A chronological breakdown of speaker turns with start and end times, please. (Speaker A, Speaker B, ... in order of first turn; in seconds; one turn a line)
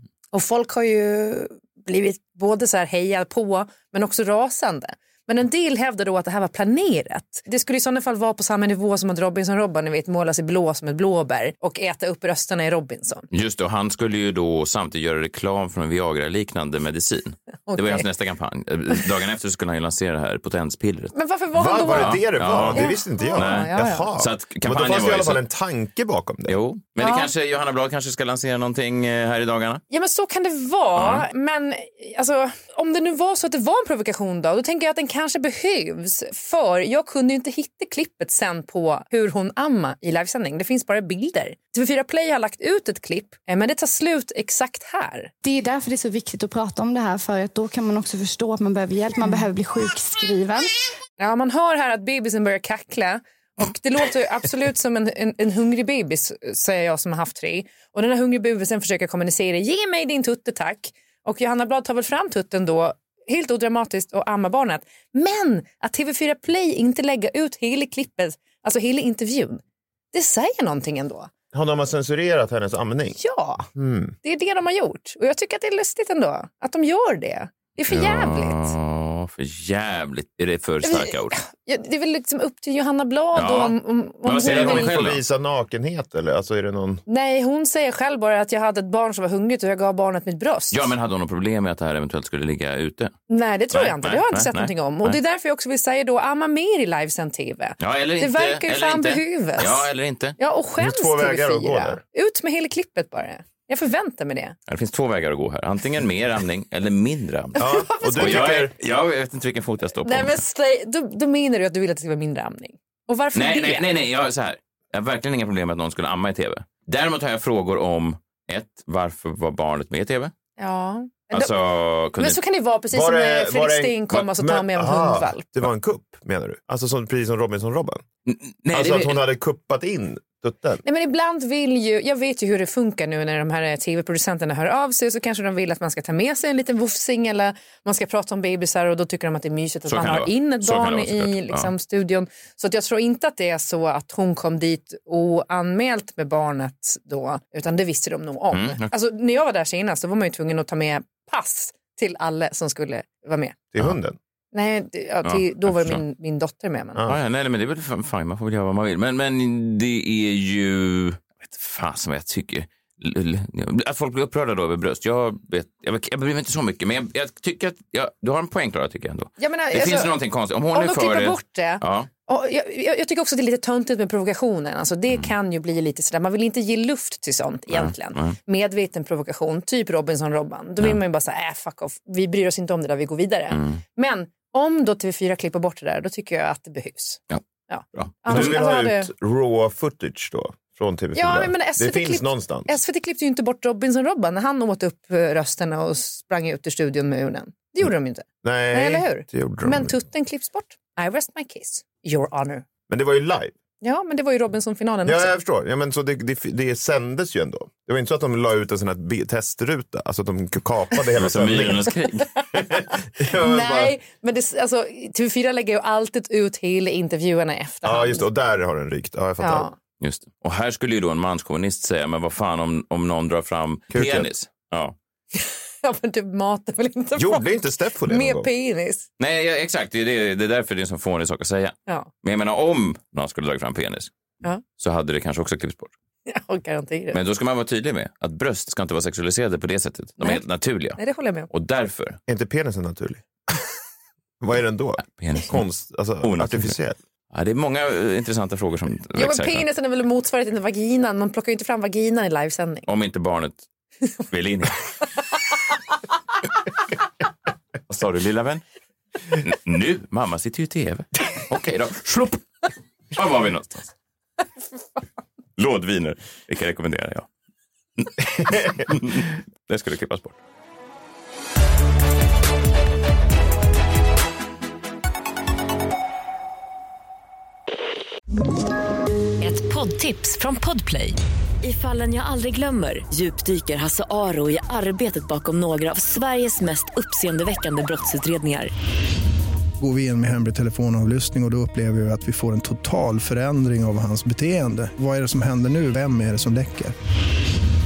Speaker A: 0.3-13.3
Speaker B: 13.3-21.1
Speaker A: 17.7-18.1
Speaker A: 21.1-24.1
Speaker C: 21.5-26.6
Speaker B: 21.9-25.4
Speaker B: 26.5-29.8
Speaker A: 27.0-27.3
Speaker A: 29.9-45.3
Speaker B: 31.0-31.2
Speaker D: 45.4-50.7
Speaker A: 51.2-69.6
Speaker A: 70.1-71.3
Speaker C: 71.5-73.2
Speaker A: 73.2-73.7
Speaker C: 73.8-74.2
Speaker A: 74.2-78.7
Speaker B: 77.9-81.4
Speaker A: 80.8-84.9
Speaker B: 83.3-85.2
Speaker C: 84.4-87.0
Speaker A: 87.1-90.9
Speaker B: 90.7-93.1
Speaker A: 93.3-99.8
Speaker B: 93.7-95.2
Speaker B: 97.8-100.4
Speaker A: 100.4-104.5
Speaker C: 100.8-102.0
Speaker B: 104.7-110.4
Speaker A: 107.6-108.5
Speaker C: 107.6-108.7
Speaker A: 110.0-113.8
Speaker B: 113.3-120.3
Speaker A: 120.6-121.5
Speaker B: 121.3-122.4
Speaker A: 122.2-125.5
Speaker C: 122.9-128.0
Speaker B: 128.3-129.2
Speaker C: 128.7-130.8
Speaker A: 130.8-153.6
Speaker B: 139.9-141.7
Speaker B: 148.5-148.9
Speaker C: 153.7-154.2
Speaker A: 154.5-157.0
Speaker B: 155.2-156.0
Speaker B: 157.1-172.1
Speaker A: 169.4-170.1
Speaker A: 170.7-189.1
Speaker B: 177.7-178.4
Speaker B: 183.5-183.8
Speaker B: 187.9-188.5
Speaker C: 188.3-192.7
Speaker A: 191.2-202.7
Speaker C: 198.4-200.0
Speaker C: 202.9-203.6
Speaker A: 203.8-205.3
Speaker C: 205.1-211.9
Speaker B: 211.2-212.3
Speaker C: 212.6-214.0
Speaker A: 213.3-218.3
Speaker C: 217.8-219.7
Speaker A: 219.4-219.7
Speaker B: 220.0-224.9
Speaker C: 223.9-224.3
Speaker A: 225.3-227.5
Speaker C: 227.2-228.5
Speaker A: 228.1-229.1
Speaker B: 229.2-234.1
Speaker B: 234.8-235.9
Speaker A: 236.3-237.2
Speaker B: 237.1-242.2
Speaker A: 241.0-241.5
Speaker C: 242.3-243.2
Speaker C: 244.4-247.0
Speaker B: 245.0-245.6
Speaker B: 246.2-246.8
Speaker B: 247.3-249.7
Speaker A: 249.2-252.9
Speaker B: 252.9-253.6
Speaker B: 254.3-254.8
Speaker B: 257.9-258.6
Speaker B: 259.3-263.9
Speaker B: 265.6-267.3
Speaker B: 268.0-270.4
Speaker E: 279.4-288.7
Speaker F: 289.8-296.9